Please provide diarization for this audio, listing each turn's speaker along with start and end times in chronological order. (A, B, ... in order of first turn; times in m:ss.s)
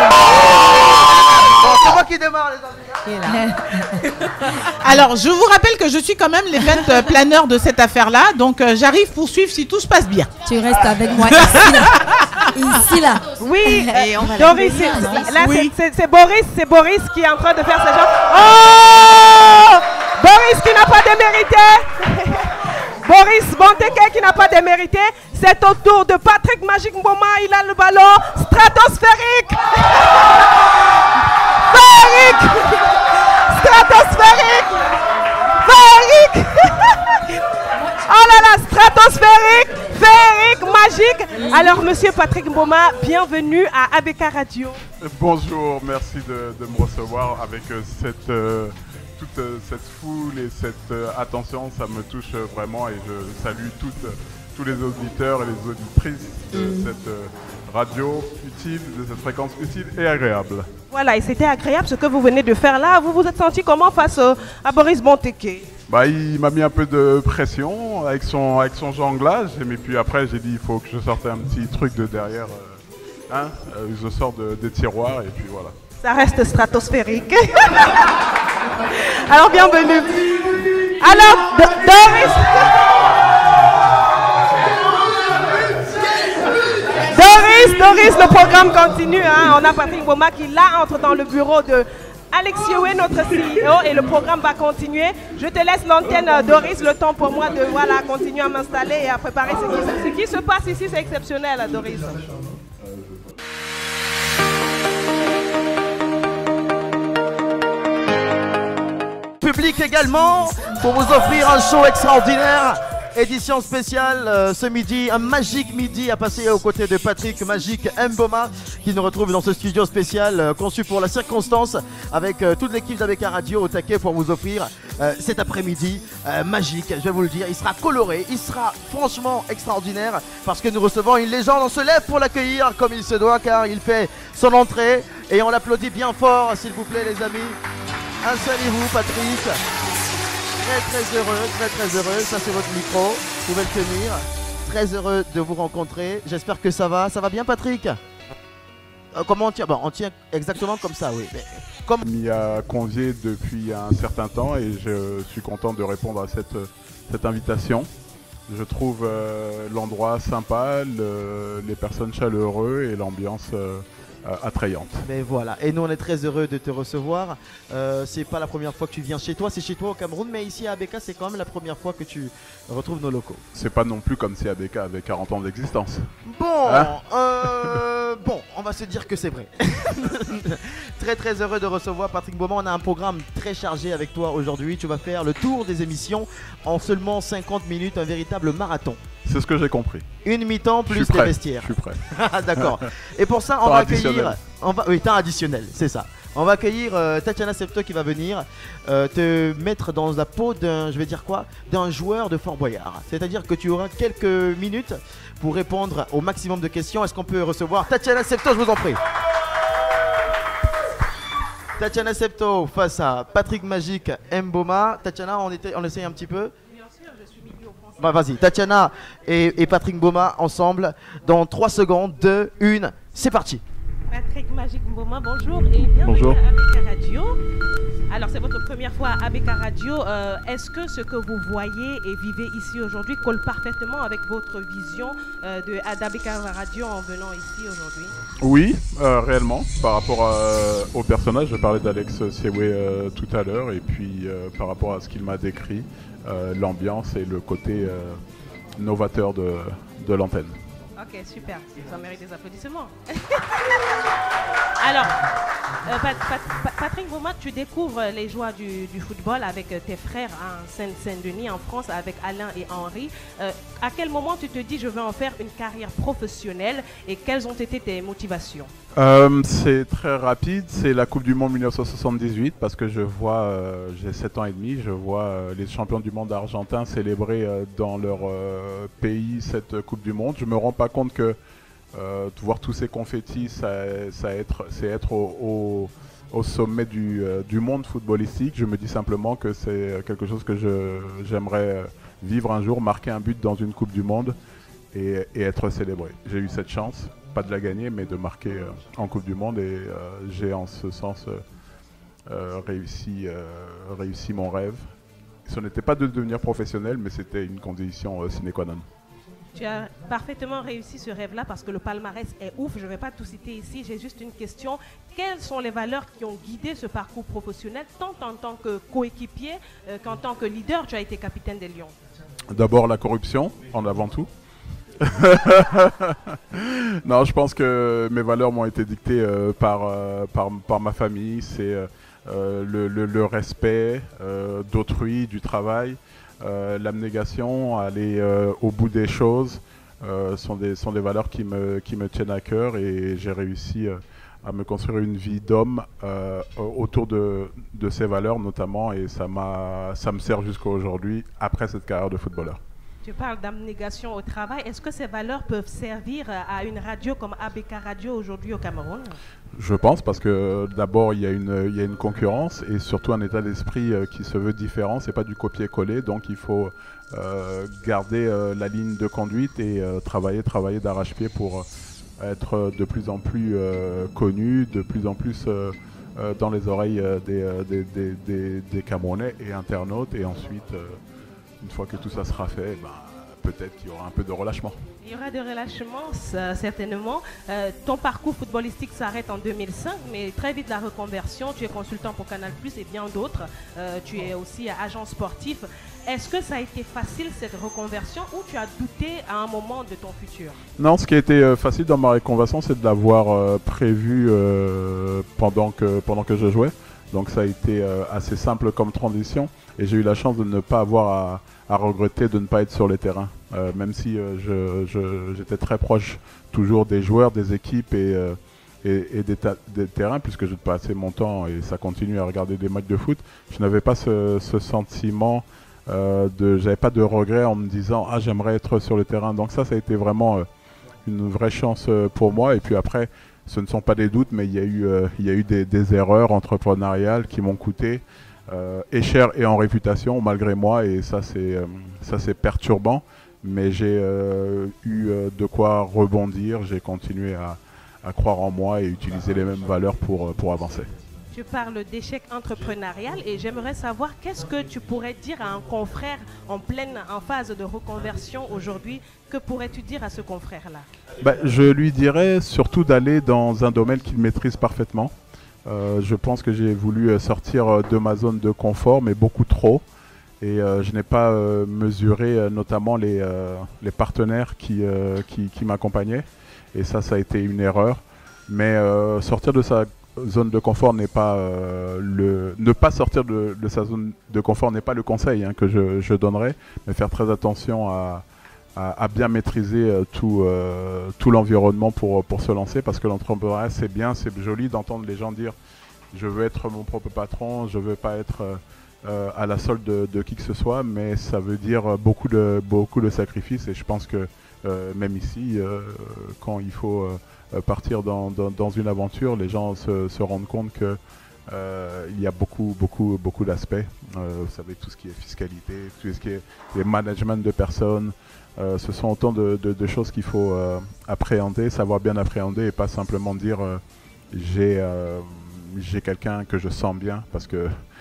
0:01.4-0:03.2 A
0:04.8-0:10.3 B
0:10.4-0:11.9 C
0:11.2-0:12.9 B
0:12.5-0:15.4 C
0:13.4-0:30.5 D
0:14.2-0:15.7 B
0:31.6-0:34.8 D
0:35.6-0:37.3 D
0:37.9-0:44.8 D
0:45.0-1:00.7 E
1:00.9-1:05.7 D
1:05.9-1:15.7 E
1:16.0-1:18.1 D
1:18.9-1:20.4 D
1:21.0-1:22.8 D
1:27.1-1:42.3 D
1:42.2-1:43.4 E
1:49.4-2:17.6 A
2:18.2-2:19.6 A
2:20.6-2:28.0 A
2:29.1-2:32.0 A
2:32.0-2:37.9 E
2:38.5-2:45.0 E
2:45.0-2:53.4 A
2:53.5-2:56.1 E
2:56.2-3:09.0 A
2:56.6-2:56.9 E
2:57.4-2:57.8 E
3:09.2-3:10.1 E
3:10.2-3:29.0 A
3:10.9-3:12.0 E
3:12.6-3:12.8 E
3:13.6-3:14.4 E
3:31.8-3:36.5 A
3:36.7-3:38.4 D
3:38.0-3:43.6 A
3:44.1-3:47.4 D
3:46.0-3:46.4 E
3:48.1-3:58.1 D
3:58.4-4:08.2 E
4:08.8-4:10.6 E
4:11.0-4:13.8 D
4:14.8-4:15.2 D
4:15.8-4:28.7 D
4:28.9-4:41.4 E
4:41.9-4:54.4 E
4:54.9-5:01.4 E
5:02.3-5:04.8 E
5:05.4-5:08.8 E
5:09.5-5:21.9 D
5:22.5-5:24.3 E
5:25.0-5:52.6 E
5:53.0-5:59.2 D
5:59.5-6:11.7 E
6:12.2-6:21.0 E
6:21.6-6:24.8 E
6:25.0-6:40.6 D
6:40.8-7:10.5 E
7:11.0-7:30.9 E
7:31.3-7:40.9 D
7:41.2-7:45.1 E
7:45.6-7:49.8 E
7:50.4-8:15.6 E
8:16.1-8:47.8 E